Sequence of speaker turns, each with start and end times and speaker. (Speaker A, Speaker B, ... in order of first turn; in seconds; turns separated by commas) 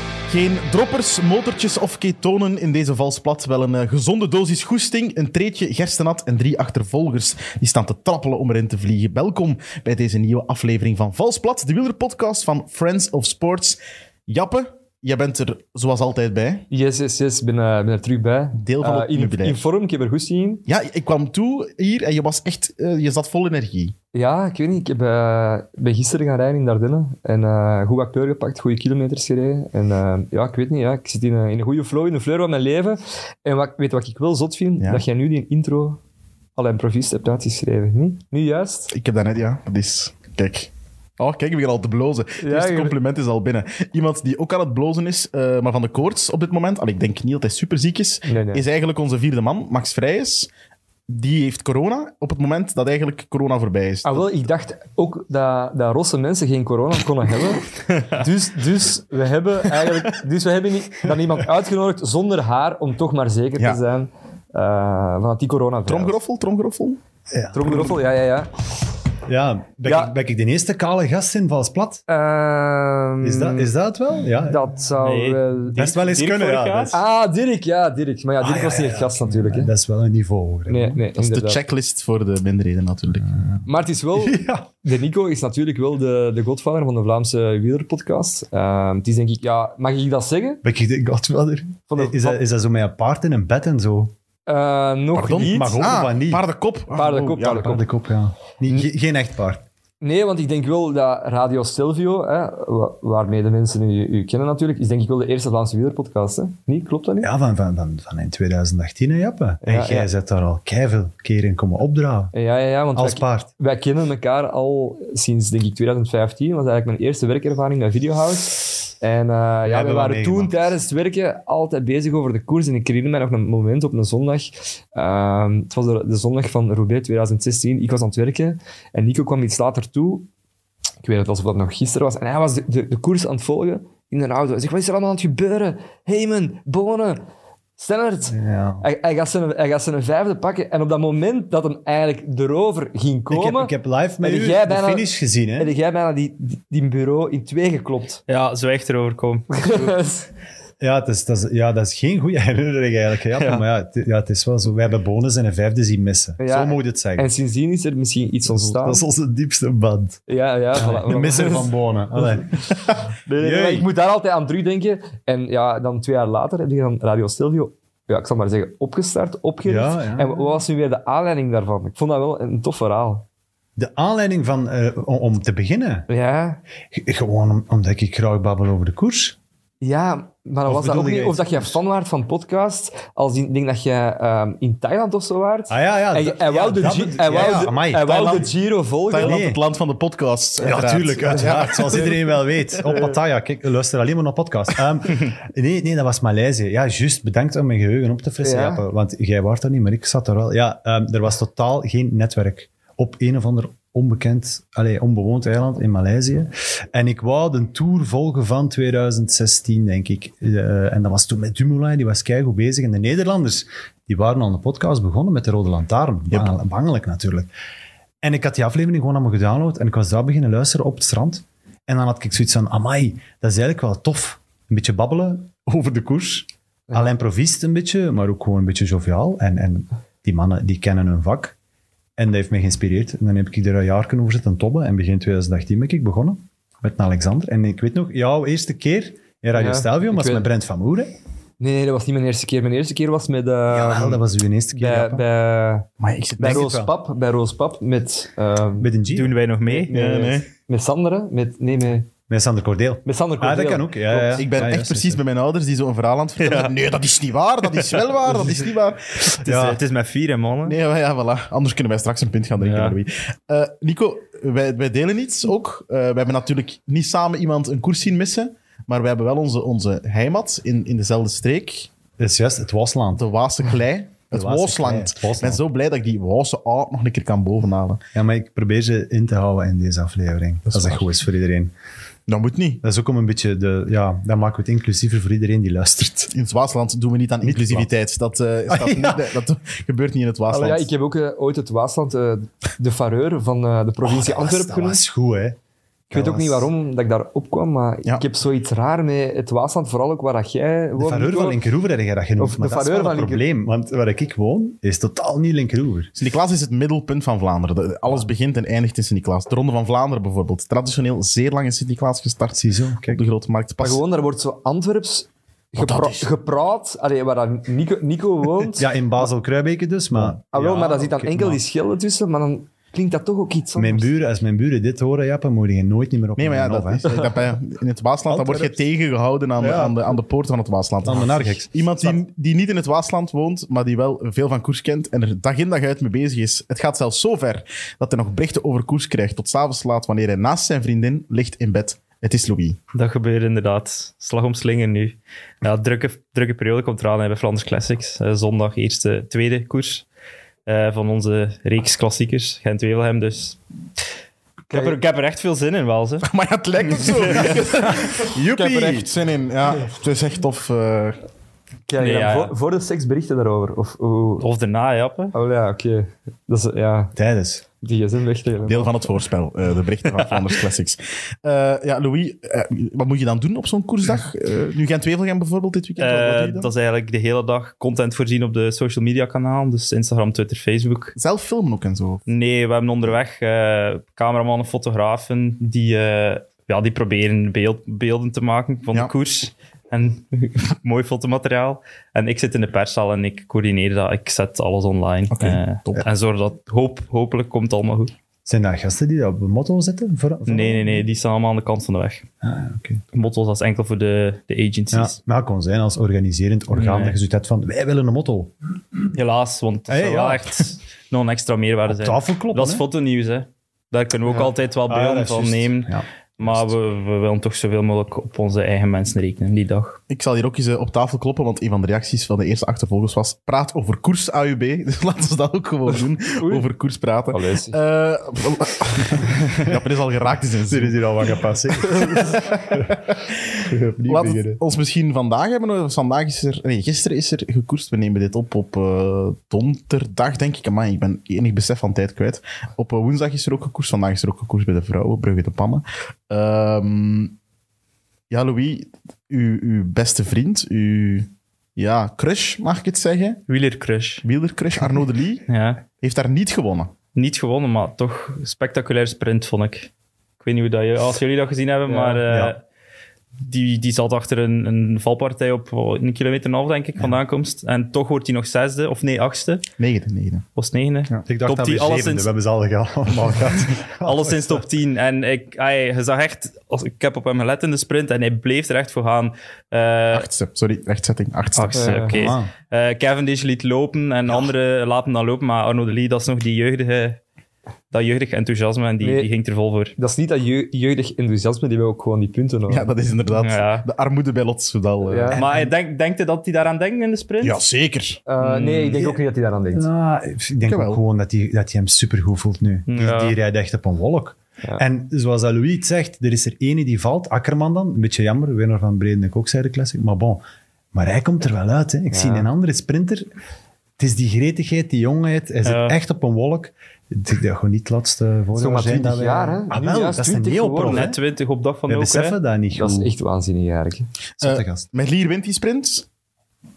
Speaker A: 0.3-16.6, Speaker B: 16.7-20.6, Speaker A: 18.5-19.6, Speaker A: 20.7-23.9, Speaker B: 24.1-36.0, Speaker B: 36.5-38.9, Speaker A: 38.9-50.5, Speaker B: 42.4-43.0, Speaker B: 48.2-48.6, Speaker A: 51.1-54.4, Speaker B: 54.0-66.2, Speaker C: 57.9-58.2, Speaker A: 65.9-67.0, Speaker D: 67.3-68.0, Speaker B: 67.5-68.6, Speaker D: 69.3-72.0, Speaker B: 69.8-70.1, Speaker B: 72.1-73.7, Speaker D: 73.2-74.7, Speaker B: 74.4-75.8, Speaker C: 75.0-77.0, Speaker D: 75.7-77.0, Speaker B: 76.9-79.7, Speaker D: 78.4-81.0, Speaker B: 80.7-81.6, Speaker A: 81.2-83.4, Speaker D: 83.2-84.7, Speaker B: 83.6-90.6, Speaker D: 90.6-94.1, Speaker B: 91.9-92.4, Speaker B: 94.5-95.8, Speaker A: 95.1-97.3, Speaker D: 95.3-96.4, Speaker B: 96.9-97.8, Speaker D: 97.2-99.6, Speaker B: 100.0-107.3, Speaker D: 107.2-112.3, Speaker B: 109.6-110.1, Speaker B: 112.3-130.3, Speaker D: 112.9-113.5, Speaker D: 119.7-120.7, Speaker B: 131.0-137.2, Speaker B: 137.8-148.2, Speaker D: 138.3-138.8, Speaker D: 143.3-145.7, Speaker C: 148.3-149.9, Speaker B: 149.5-150.3, Speaker D: 150.8-157.3, Speaker C: 153.3-153.6, Speaker B: 156.4-159.0, Speaker D: 158.5-163.9, Speaker B: 160.3-162.7, Speaker B: 163.3-173.2, Speaker D: 169.7-170.5, Speaker D: 173.8-176.1, Speaker B: 176.1-176.6, Speaker D: 176.9-179.3, Speaker B: 179.8-189.4, Speaker D: 180.7-181.8, Speaker D: 185.7-188.2, Speaker A: 187.3-188.5, Speaker A: 189.1-192.9, Speaker D: 189.2-189.6, Speaker D: 190.6-217.5, Speaker B: 191.3-192.1, Speaker B: 192.8-193.1, Speaker B: 198.4-198.8, Speaker D: 218.2-231.5, Speaker D: 232.2-241.1, Speaker B: 239.5-240.5, Speaker B: 241.6-245.9, Speaker D: 243.7-245.2, Speaker A: 246.0-246.7, Speaker B: 246.4-248.9, Speaker D: 246.4-246.9, Speaker D: 248.8-249.4, Speaker C: 249.1-249.9, Speaker B: 249.7-252.1, Speaker A: 249.9-250.5, Speaker D: 252.3-255.2, Speaker B: 253.0-254.4, Speaker A: 254.3-259.7, Speaker C: 256.4-256.7, Speaker C: 257.7-258.3, Speaker C: 259.3-260.8, Speaker D: 259.4-259.8, Speaker A: 260.6-271.9, Speaker C: 262.6-263.0, Speaker D: 272.2-273.2, Speaker A: 273.1-278.0, Speaker D: 274.3-275.6, Speaker D: 278.1-281.7, Speaker A: 280.7-281.1, Speaker A: 282.3-282.8, Speaker D: 282.8-286.3, Speaker A: 286.3-290.9, Speaker D: 287.4-287.9, Speaker D: 288.7-289.3, Speaker B: 290.5-295.0, Speaker D: 294.0-295.6, Speaker B: 296.1-301.6, Speaker D: 296.1-296.7, Speaker D: 301.0-306.1, Speaker B: 302.4-303.5, Speaker A: 306.1-314.0, Speaker D: 312.6-313.2, Speaker B: 313.8-318.9, Speaker A: 315.8-316.3, Speaker D: 318.8-321.6, Speaker B: 320.5-324.1, Speaker D: 323.8-327.1, Speaker A: 326.4-342.8, Speaker D: 328.3-328.8, Speaker D: 329.6-330.2, Speaker D: 331.0-332.2, Speaker C: 342.9-350.0, Speaker C: 350.6-353.6, Speaker B: 354.7-355.0, Speaker C: 354.7-356.3, Speaker A: 356.2-361.2, Speaker C: 356.9-357.7, Speaker B: 358.4-359.1, Speaker B: 361.9-364.4, Speaker C: 362.0-362.5, Speaker C: 364.4-365.3, Speaker B: 365.3-367.1, Speaker D: 367.1-367.6, Speaker B: 367.8-369.1, Speaker A: 368.6-376.7, Speaker C: 370.1-370.6, Speaker C: 376.0-381.1, Speaker A: 381.1-382.2, Speaker C: 382.3-398.1, Speaker A: 395.3-396.0, Speaker D: 398.4-401.1, Speaker C: 400.4-402.2, Speaker D: 402.4-403.0, Speaker C: 403.1-405.1, Speaker D: 404.9-408.5, Speaker C: 406.7-407.2, Speaker C: 409.1-420.0, Speaker D: 409.9-410.7, Speaker D: 411.9-412.8, Speaker D: 414.9-416.7, Speaker A: 420.1-431.0, Speaker B: 426.4-426.7, Speaker B: 427.3-427.8, Speaker D: 430.7-433.0, Speaker B: 431.8-432.4, Speaker A: 432.1-447.3, Speaker D: 433.7-434.6, Speaker A: 448.3-453.4, Speaker C: 453.5-454.2, Speaker A: 454.2-456.9, Speaker C: 455.5-455.8, Speaker C: 457.1-459.9, Speaker C: 460.4-462.6, Speaker B: 461.9-462.2, Speaker D: 462.2-462.5, Speaker C: 463.4-469.6, Speaker A: 469.8-470.4, Speaker C: 470.6-472.3, Speaker D: 471.1-474.6, Speaker C: 473.1-480.3, Speaker A: 480.1-482.0, Speaker C: 481.5-487.2, Speaker B: 481.7-482.2, Speaker D: 482.1-482.5, Speaker C: 487.9-489.9, Speaker B: 489.0-489.3, Speaker B: 490.0-492.9, Speaker A: 492.7-495.3, Speaker C: 493.4-493.9, Speaker B: 495.0-495.4, Speaker C: 495.3-497.6, Speaker D: 495.3-495.7, Speaker A: 497.4-498.2, Speaker B: 498.3-499.9, Speaker C: 498.4-499.1, Speaker D: 499.7-513.3, Speaker A: 500.6-501.0, Speaker C: 502.9-503.4, Speaker B: 512.1-512.5, Speaker D: 514.0-521.2, Speaker C: 515.6-516.0, Speaker B: 518.5-521.1, Speaker C: 520.8-522.4, Speaker D: 521.9-523.1, Speaker B: 522.7-524.1, Speaker D: 524.4-524.9, Speaker A: 524.4-526.0